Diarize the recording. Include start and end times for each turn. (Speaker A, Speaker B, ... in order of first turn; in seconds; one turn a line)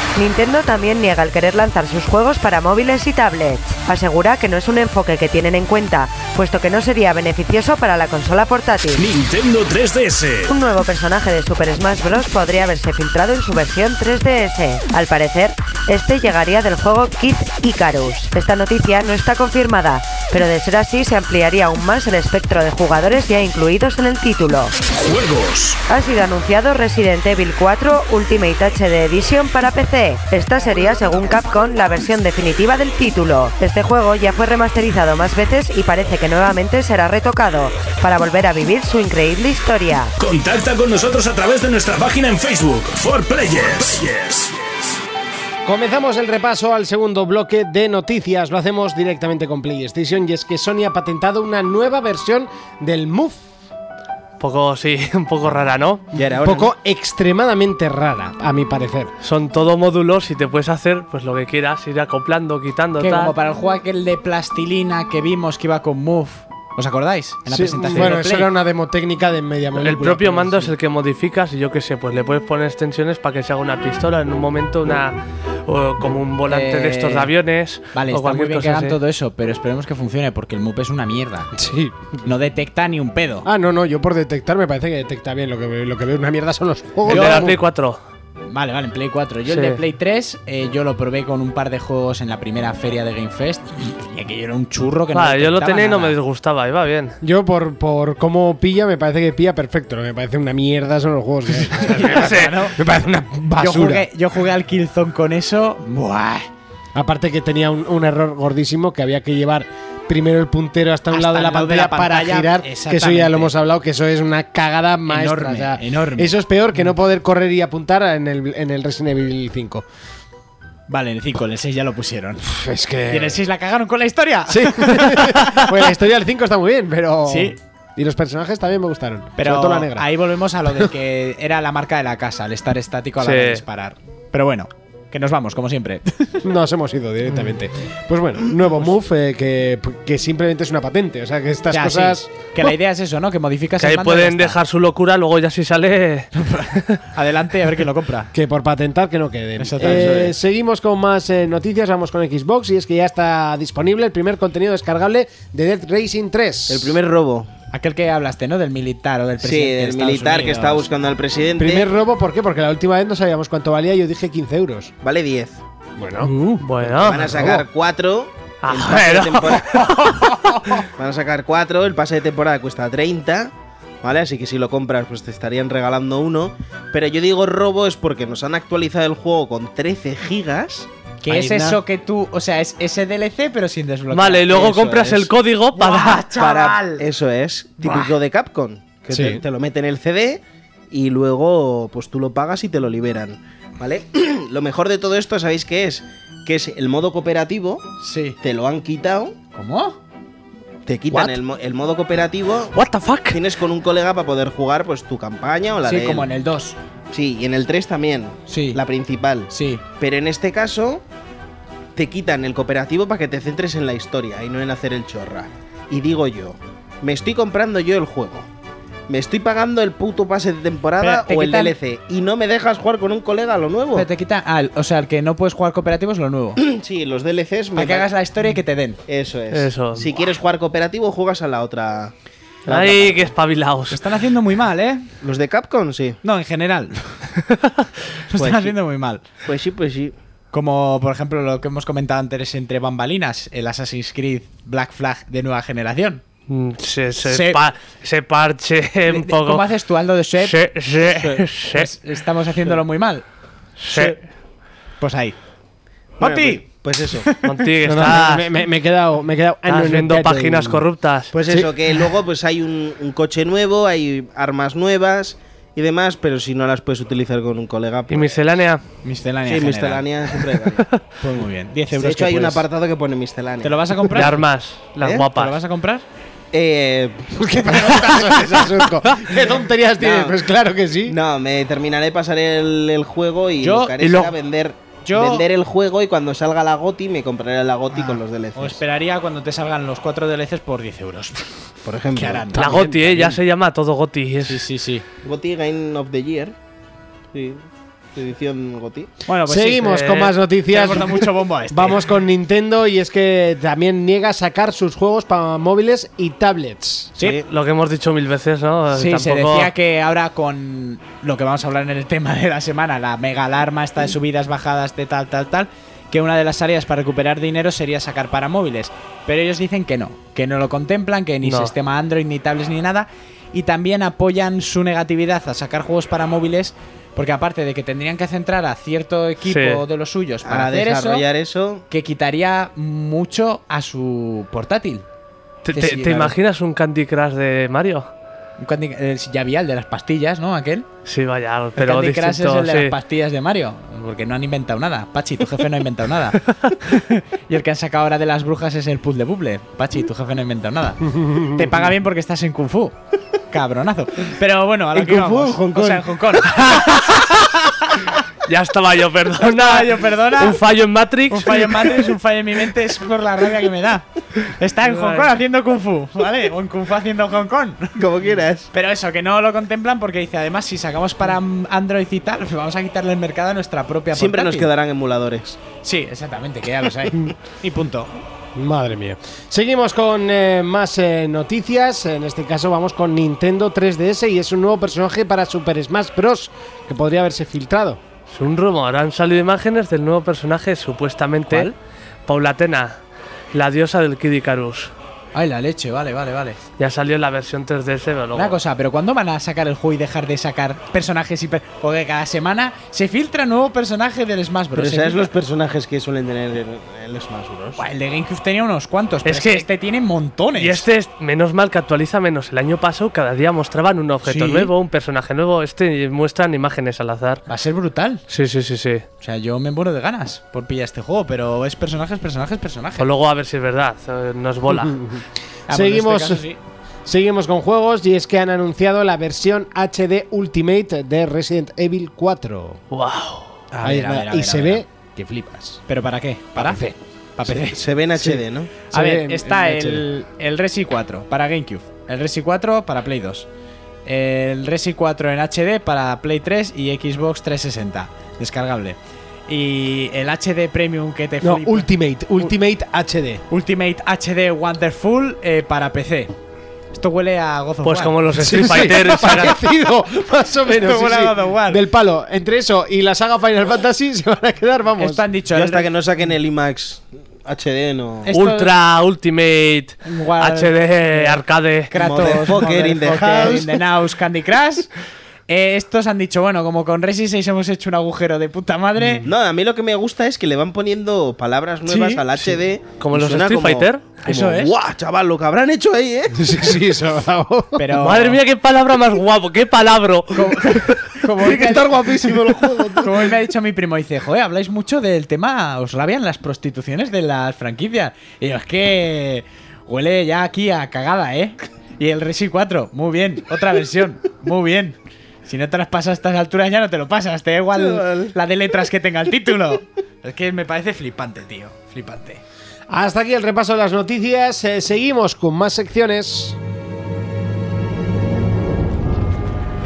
Speaker A: 0.1-9.1
Speaker B: 9.0-10.5
Speaker A: 10.5-24.7
Speaker B: 24.9-25.8
Speaker A: 25.9-40.1
Speaker B: 40.2-44.9
Speaker C: 45.6-53.4
Speaker D: 54.4-56.1
Speaker E: 56.1-56.7
Speaker C: 56.4-59.1
Speaker D: 59.2-63.3
Speaker F: 63.0-68.5
Speaker C: 67.5-70.7
Speaker D: 69.8-79.0
Speaker F: 76.5-77.3
Speaker F: 77.9-81.5
Speaker C: 81.5-82.2
Speaker F: 82.2-83.5
Speaker C: 83.4-87.6
Speaker F: 87.1-87.5
Speaker D: 87.1-88.0
Speaker F: 88.5-96.2
Speaker D: 89.5-89.8
Speaker D: 95.1-97.2
Speaker C: 97.2-104.1
Speaker F: 101.6-102.8
Speaker D: 102.0-102.6
Speaker F: 103.6-106.5
Speaker C: 106.9-119.8
Speaker F: 111.1-113.5
Speaker F: 115.1-116.3
Speaker F: 120.9-122.5
Speaker C: 122.4-123.4
Speaker F: 123.1-125.8
Speaker C: 124.5-130.1
Speaker F: 127.3-127.6
Speaker F: 129.4-136.4
Speaker D: 133.2-133.6
Speaker C: 136.4-142.7
Speaker F: 141.7-144.6
Speaker D: 143.8-147.0
Speaker F: 146.3-148.3
Speaker C: 148.3-156.9
Speaker F: 149.6-150.3
Speaker E: 149.8-150.2
Speaker E: 156.7-157.5
Speaker F: 157.7-160.8
Speaker E: 159.4-161.9
Speaker C: 161.6-164.9
Speaker E: 165.0-165.6
Speaker C: 166.0-166.3
Speaker D: 166.2-167.3
Speaker E: 166.9-169.8
Speaker C: 167.0-167.7
Speaker D: 168.6-170.1
Speaker F: 169.7-170.7
Speaker E: 171.0-180.9
Speaker F: 181.2-184.6
Speaker C: 181.3-181.8
Speaker D: 184.1-186.3
Speaker E: 184.5-185.3
Speaker F: 185.7-187.1
Speaker E: 186.3-197.8
Speaker F: 187.8-188.1
Speaker C: 189.1-189.4
Speaker F: 198.0-198.4
Speaker E: 198.4-199.4
Speaker F: 199.5-200.0
Speaker E: 200.8-202.7
Speaker D: 202.7-203.4
Speaker E: 203.3-206.3
Speaker F: 205.8-206.8
Speaker E: 207.1-211.0
Speaker F: 208.5-208.8
Speaker F: 209.5-209.8
Speaker E: 211.9-218.5
Speaker E: 219.1-224.1
Speaker F: 221.0-221.8
Speaker F: 223.9-226.6
Speaker E: 226.6-228.1
Speaker F: 227.7-229.0
Speaker E: 229.1-232.1
Speaker D: 229.5-230.1
Speaker E: 232.7-233.3
Speaker D: 232.7-234.0
Speaker F: 233.9-235.1
Speaker E: 235.2-236.2
Speaker F: 236.2-237.3
Speaker F: 238.3-239.2
Speaker E: 238.3-238.7
Speaker E: 239.4-240.1
Speaker F: 240.5-246.2
Speaker D: 246.5-249.7
Speaker F: 247.2-247.6
Speaker F: 249.1-253.2
Speaker D: 250.4-251.9
Speaker D: 253.8-254.2
Speaker F: 255.0-255.4
Speaker E: 256.2-257.3
Speaker F: 256.2-257.5
Speaker D: 257.4-258.5
Speaker C: 257.8-260.8
Speaker D: 259.7-261.3
Speaker E: 261.3-268.4
Speaker D: 268.1-268.8
Speaker F: 269.0-270.1
Speaker E: 269.4-270.9
Speaker F: 271.2-272.6
Speaker E: 271.9-273.9
Speaker F: 273.6-274.4
Speaker D: 274.1-275.6
Speaker E: 275.0-275.3
Speaker F: 275.3-276.0
Speaker E: 276.5-278.0
Speaker C: 277.4-281.2
Speaker E: 280.0-280.4
Speaker E: 281.1-288.8
Speaker F: 283.6-284.3
Speaker F: 285.0-285.4
Speaker F: 287.9-291.6
Speaker E: 291.8-292.6
Speaker F: 292.1-293.3
Speaker D: 292.5-294.7
Speaker F: 294.4-295.0
Speaker E: 295.2-296.5
Speaker E: 297.3-299.1
Speaker F: 299.3-302.0
Speaker C: 299.5-307.1
Speaker D: 299.9-300.3
Speaker E: 307.2-307.4
Speaker D: 307.2-309.7
Speaker F: 308.9-331.2
Speaker D: 321.4-321.7
Speaker D: 329.4-329.8
Speaker E: 330.4-331.8
Speaker F: 331.9-335.0
Speaker D: 335.6-338.1
Speaker F: 335.7-336.4
Speaker F: 338.6-340.9
Speaker D: 341.0-342.9
Speaker F: 341.8-353.0
Speaker C: 351.1-351.7
Speaker F: 353.5-358.2
Speaker E: 355.0-356.0
Speaker D: 358.4-362.0
Speaker F: 359.4-360.6
Speaker F: 361.3-368.0
Speaker D: 364.8-365.3
Speaker E: 367.9-368.7
Speaker F: 368.7-374.7
Speaker E: 374.1-375.6
Speaker F: 375.8-378.2
Speaker C: 378.5-388.0
Speaker D: 388.3-391.7
Speaker F: 391.5-391.8
Speaker D: 392.3-393.0
Speaker D: 393.5-394.9
Speaker F: 395.3-396.6
Speaker D: 396.8-398.6
Speaker F: 398.3-405.3
Speaker E: 404.7-407.8
Speaker F: 407.8-410.9
Speaker D: 409.2-409.6
Speaker D: 410.6-417.4
Speaker F: 414.2-414.7
Speaker F: 417.5-418.2
Speaker D: 418.3-419.0
Speaker F: 419.2-423.1
Speaker D: 423.0-425.0
Speaker C: 424.7-426.4
Speaker F: 425.7-426.6
Speaker C: 427.1-432.8
Speaker D: 432.9-433.6
Speaker F: 433.7-434.8
Speaker C: 433.8-435.8
Speaker F: 435.9-436.8
Speaker C: 436.6-437.0
Speaker F: 437.4-438.4
Speaker E: 437.5-438.7
Speaker C: 438.9-440.1
Speaker F: 438.9-443.5
Speaker F: 444.1-452.5
Speaker C: 451.4-453.4
Speaker F: 453.5-456.3
Speaker F: 456.9-459.5
Speaker D: 457.8-459.6
Speaker C: 458.4-465.2
Speaker F: 460.7-461.8
Speaker F: 465.0-465.9
Speaker E: 465.5-468.3
Speaker F: 468.2-468.7
Speaker D: 468.3-472.5
Speaker F: 470.0-474.9
Speaker E: 471.9-473.8
Speaker F: 475.5-479.2
Speaker C: 479.0-479.3
Speaker E: 479.2-486.5
Speaker F: 481.9-482.6
Speaker D: 483.0-484.3
Speaker F: 484.2-484.7
Speaker C: 486.3-487.9
Speaker F: 487.8-488.4
Speaker D: 488.0-491.1
Speaker F: 490.3-492.1
Speaker C: 491.4-493.1
Speaker E: 491.5-493.2
Speaker F: 493.0-512.4
Speaker E: 507.7-508.4
Speaker C: 512.9-516.6